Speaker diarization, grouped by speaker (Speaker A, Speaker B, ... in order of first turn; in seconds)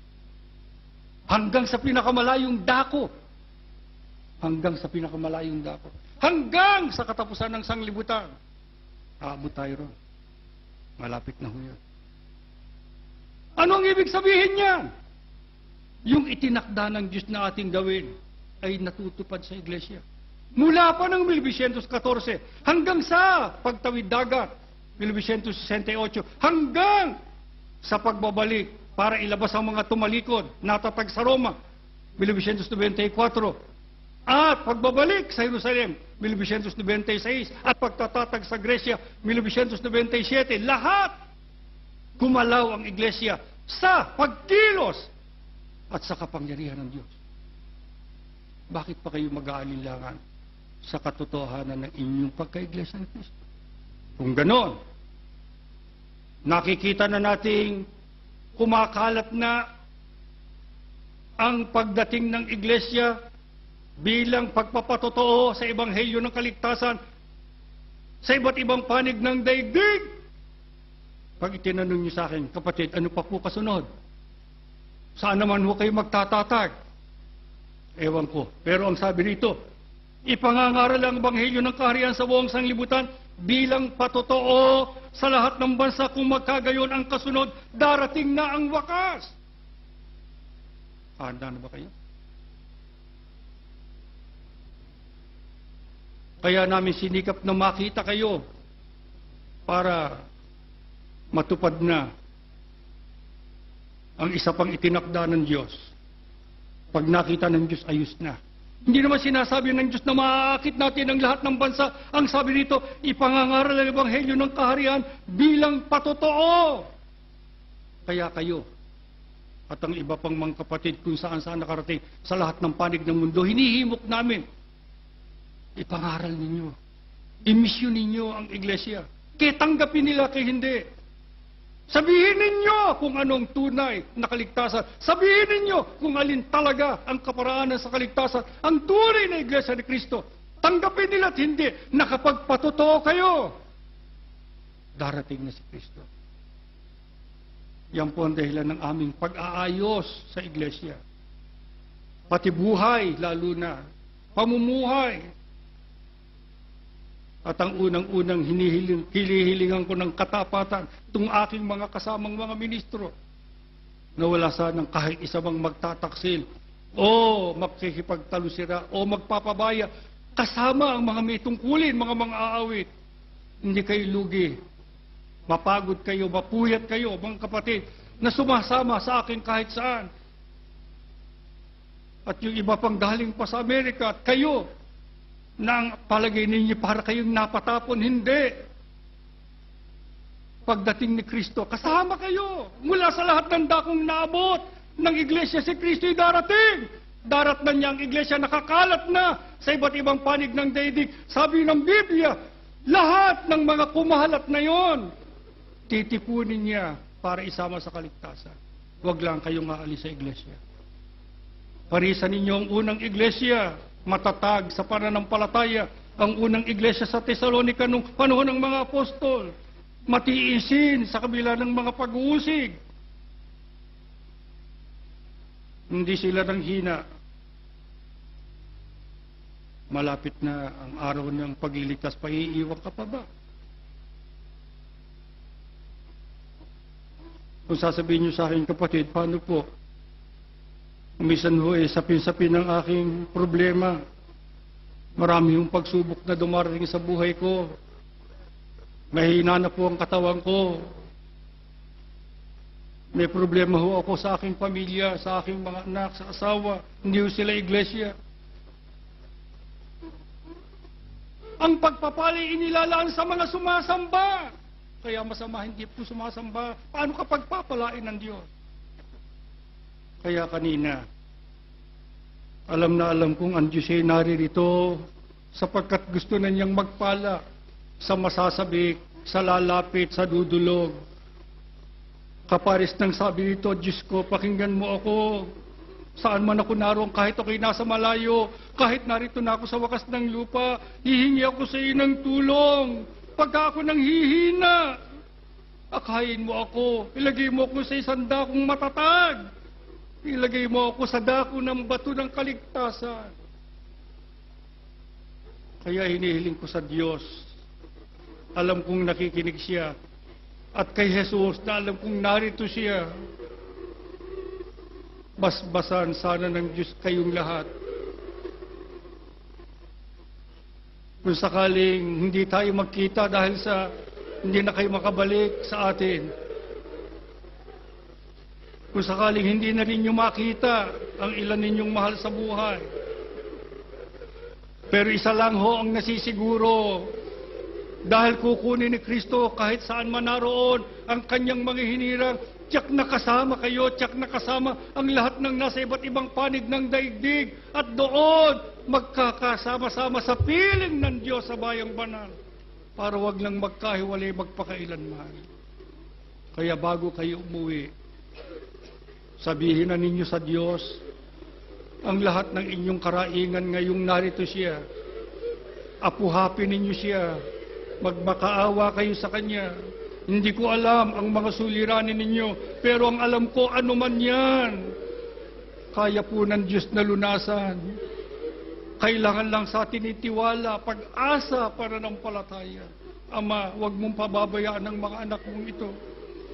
Speaker A: 1.3-3.1, 4.4-8.3, 9.2-9.9, 11.0-11.8, 13.6-14.9, 16.1-20.0, 20.6-27.1, 27.8-31.6, 32.2-33.6, 34.3-41.1, 42.2-45.1, 45.9-47.1, 48.7-50.2, 50.8-53.3, 54.2-54.8, 56.5-57.9, 58.6-59.6, 61.4-63.1, 64.0-67.0, 68.2-70.1, 71.4-73.9, 75.2-76.7, 78.0-79.6, 80.3-89.4, 91.2-91.9, 96.4-98.4, 99.7-100.2, 101.3-102.1, 104.2-105.9, 106.9-116.9, 118.1-118.7, 119.7-124.4, 125.8-126.8, 127.5-130.8, 131.9-143.5, 145.0-146.1, 147.9-151.0, 152.3-153.8, 154.3-155.3, 157.5-163.1, 164.2-166.4, 167.0-172.9, 173.6-174.6, 175.5-180.1, 182.3-184.6, 185.6-188.6, 190.7-202.4, 202.9-205.1, 205.9-210.6, 211.9-219.5, 220.1-222.8, 225.9-227.0, 229.9-233.2, 237.7-239.7, 241.2-244.0, 245.2-247.6, 249.1-250.9, 253.1-258.1, 261.6-268.5, 270.2-271.0, 272.7-277.4, 278.0-280.9, 282.5-285.5, 286.2-294.9, 295.9-299.4, 300.2-303.3, 305.8-307.3, 308.6-309.9, 310.8-313.1, 315.4-317.7, 321.2-323.9, 324.4-326.3, 328.9-332.9, 334.9-337.1, 338.1-352.3, 353.0-355.4, 356.6-357.9, 359.4-361.0, 362.0-364.8, 366.0-367.4, 368.0-369.7, 370.3-374.9, 375.9-378.0, 379.0-385.9